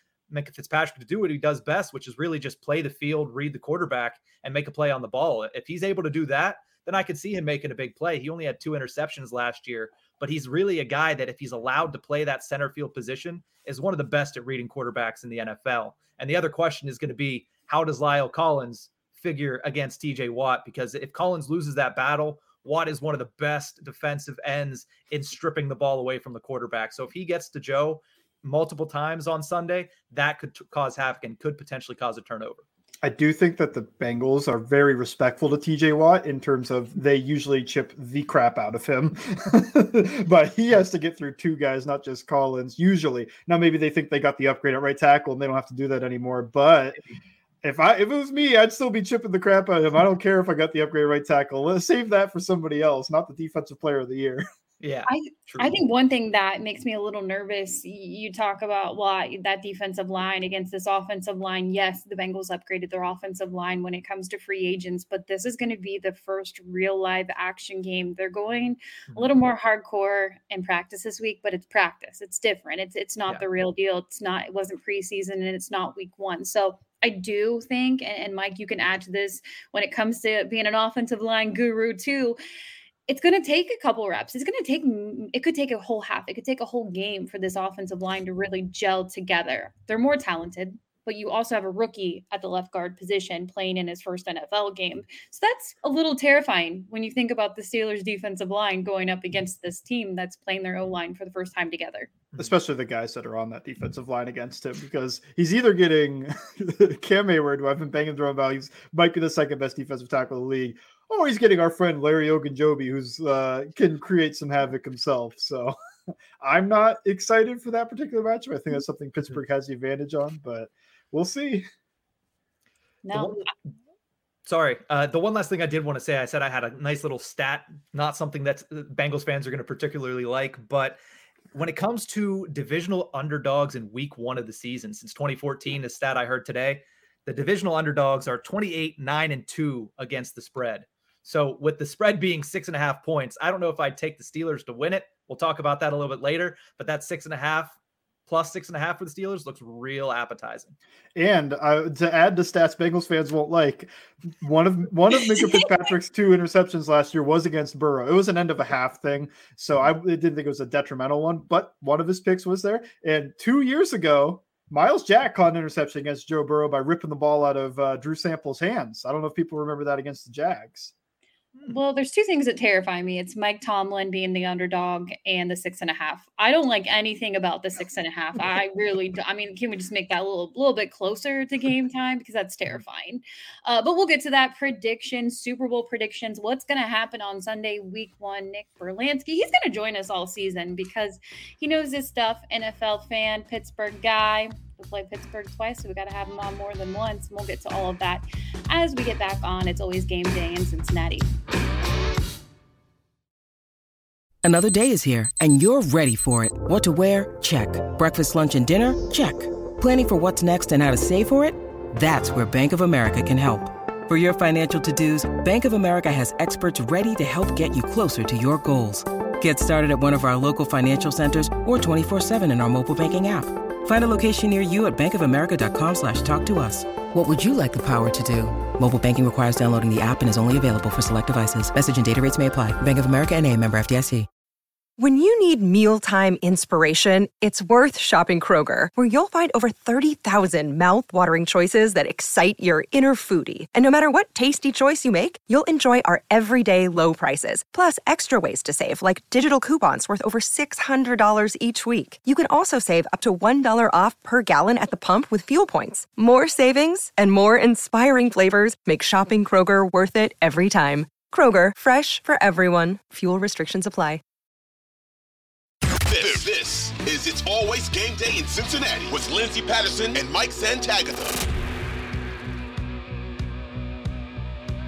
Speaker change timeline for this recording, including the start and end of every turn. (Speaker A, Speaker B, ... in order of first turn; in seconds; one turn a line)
Speaker A: 0.3-32.6
Speaker B: 33.0-47.0
Speaker B: 47.6-54.5
Speaker A: 54.8-55.7
Speaker C: 55.1-82.4
Speaker C: 83.1-102.1
Speaker B: 102.3-115.8
Speaker B: 116.4-121.7
Speaker C: 123.0-123.5
Speaker A: 123.1-123.5
Speaker A: 124.5-131.0
Speaker A: 131.5-150.8
Speaker B: 151.2-170.9
Speaker C: 171.7-201.3
Speaker D: 204.4-234.3
Speaker E: 235.0-264.2
Speaker F: 266.1-271.4